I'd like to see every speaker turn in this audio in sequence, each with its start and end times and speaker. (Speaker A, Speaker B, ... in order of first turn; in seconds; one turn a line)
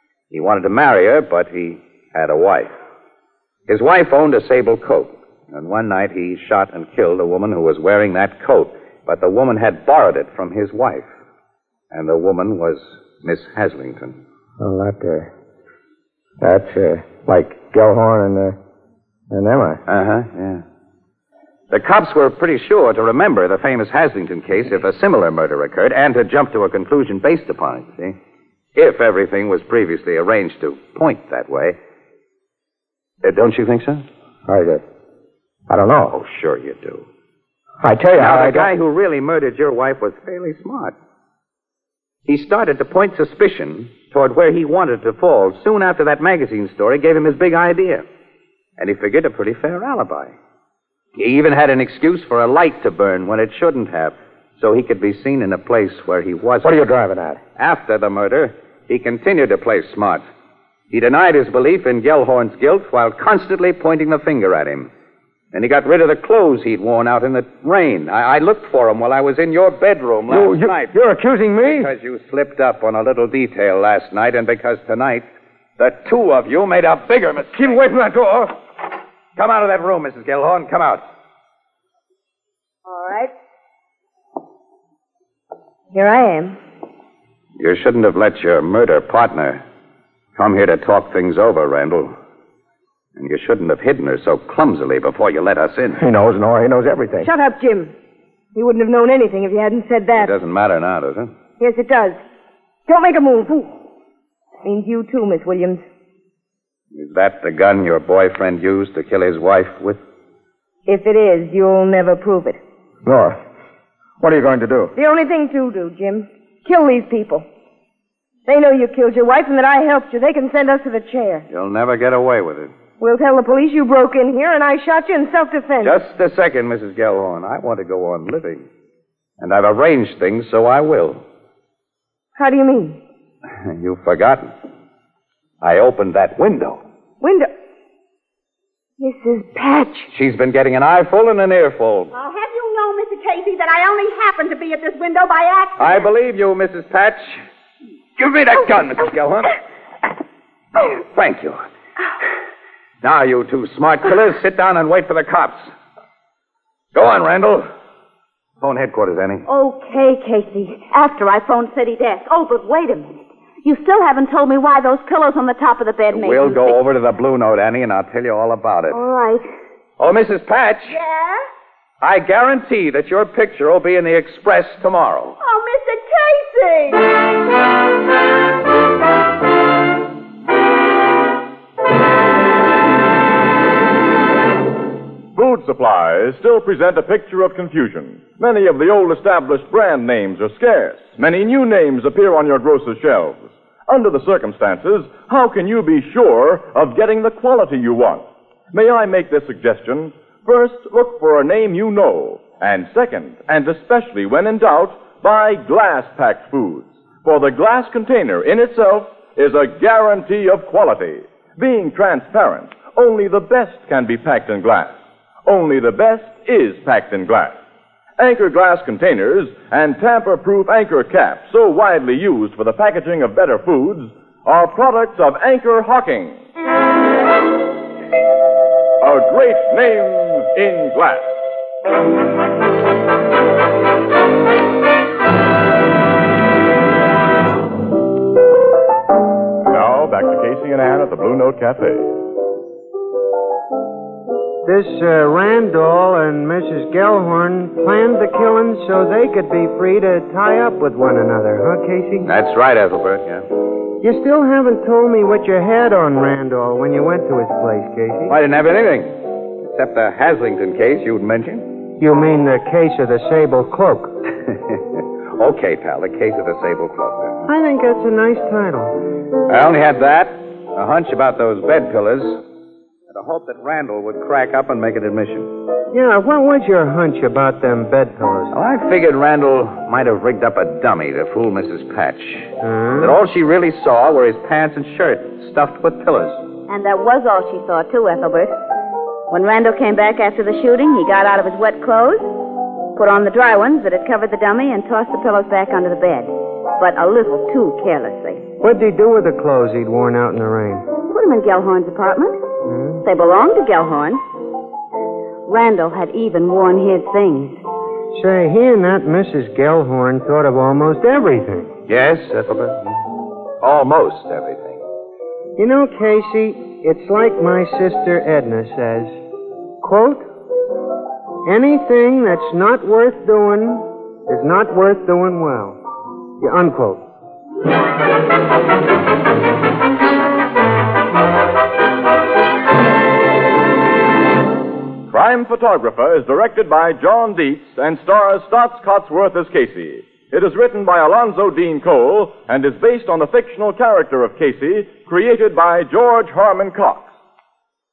Speaker A: 0.3-2.7
Speaker A: 3.7-11.1
Speaker A: 11.9-14.2
Speaker B: 14.6-15.3
Speaker B: 16.4-18.6
Speaker B: 19.3-19.8
Speaker A: 19.9-20.6
Speaker A: 21.7-28.2
Speaker A: 28.8-31.8
Speaker A: 33.2-34.0
Speaker B: 34.5-34.8
Speaker B: 35.7-36.1
Speaker A: 36.1-37.1
Speaker B: 37.8-38.7
Speaker A: 38.2-41.0
Speaker A: 42.3-48.0
Speaker A: 48.8-50.4
Speaker A: 51.2-56.8
Speaker B: 56.6-57.4
Speaker A: 57.6-60.2
Speaker A: 60.9-64.9
Speaker A: 65.5-71.0
Speaker B: 70.3-71.9
Speaker A: 71.6-77.9
Speaker B: 77.6-78.5
Speaker A: 79.4-81.0
Speaker C: 82.9-83.3
Speaker C: 85.9-86.6
Speaker A: 87.6-89.6
Speaker A: 90.4-92.1
Speaker A: 93.2-96.0
Speaker B: 96.0-97.3
Speaker C: 97.2-97.9
Speaker C: 98.5-100.3
Speaker A: 100.2-101.3
Speaker C: 101.6-102.2
Speaker C: 102.9-103.7
Speaker C: 104.6-105.8
Speaker A: 106.9-110.0
Speaker C: 110.9-112.6
Speaker B: 113.0-113.4
Speaker B: 114.2-114.9
Speaker C: 115.0-117.5
Speaker C: 118.5-121.5
Speaker A: 121.5-122.7
Speaker C: 123.0-126.0
Speaker A: 125.8-128.7
Speaker A: 129.4-131.2
Speaker C: 132.4-133.0
Speaker A: 133.6-134.5
Speaker A: 135.6-136.8
Speaker C: 137.2-137.5
Speaker C: 139.0-140.1
Speaker A: 140.1-142.1
Speaker D: 142.1-146.1
Speaker A: 145.8-147.4
Speaker A: 148.2-149.6
Speaker A: 150.8-151.6
Speaker A: 153.0-155.7
Speaker A: 156.9-157.7
Speaker A: 158.6-159.5
Speaker E: 159.5-166.8
Speaker A: 166.1-169.0
Speaker E: 168.9-169.4
Speaker A: 170.0-171.0
Speaker D: 170.9-171.4
Speaker A: 172.0-175.4
Speaker D: 175.4-177.1
Speaker F: 185.3-214.9
Speaker F: 215.5-217.6
Speaker F: 218.2-226.4
Speaker F: 229.0-231.3
Speaker F: 239.7-242.1
Speaker G: 244.7-252.3
Speaker A: 252.2-253.5
Speaker G: 254.0-258.3
Speaker A: 258.3-261.9
Speaker G: 262.0-264.2
Speaker A: 264.4-267.5
Speaker G: 267.5-269.0
Speaker A: 269.5-272.4
Speaker A: 273.1-275.6
Speaker G: 275.9-278.5
Speaker A: 278.5-286.4
Speaker G: 282.6-283.2
Speaker E: 286.7-288.5
Speaker E: 289.3-292.4
Speaker E: 292.9-298.4
Speaker G: 298.6-300.9
Speaker E: 301.0-302.4
Speaker G: 302.6-303.0
Speaker E: 303.0-304.2
Speaker E: 305.5-307.6
Speaker G: 308.1-311.7
Speaker A: 311.9-313.0
Speaker A: 313.6-314.8
Speaker G: 315.6-319.2
Speaker G: 319.8-320.3
Speaker G: 321.4-325.8
Speaker G: 326.4-327.1
Speaker F: 335.1-347.1